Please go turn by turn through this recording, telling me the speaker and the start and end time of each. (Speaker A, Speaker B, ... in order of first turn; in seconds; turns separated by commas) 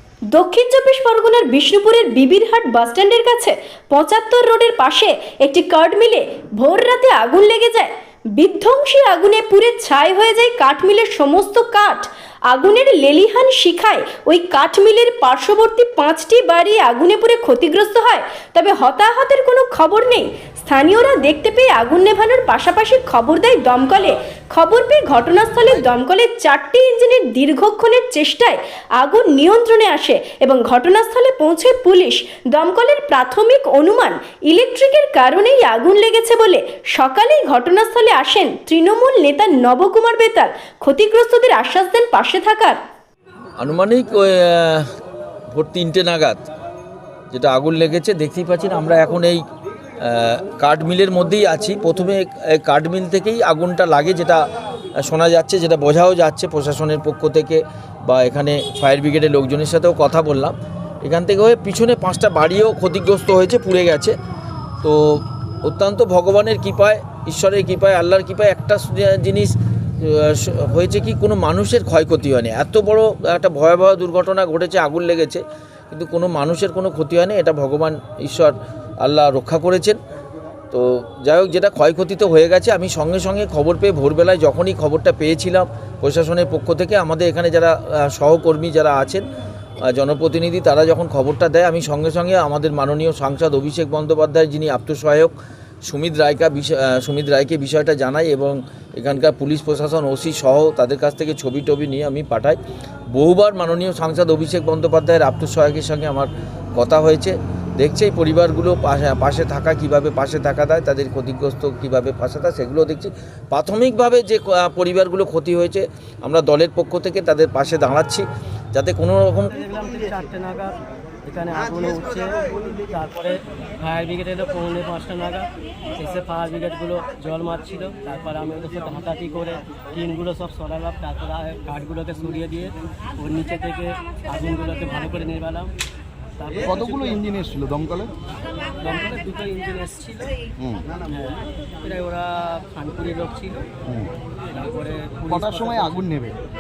Speaker A: 0.3-42.8, Speaker B: 43.6-44.9, Speaker B: 45.5-46.5, Speaker B: 47.3-49.4, Speaker B: 50.0-54.4, Speaker B: 55.0-64.2, Speaker B: 64.8-80.0, Speaker B: 80.7-89.2, Speaker B: 89.8-102.6, Speaker B: 103.1-119.5, Speaker C: 119.5-120.7, Speaker C: 121.2-135.7, Speaker C: 136.4-137.2, Speaker D: 136.7-138.1, Speaker C: 138.8-140.4, Speaker D: 140.6-140.9, Speaker C: 141.1-143.7, Speaker C: 144.5-146.1, Speaker D: 145.3-146.4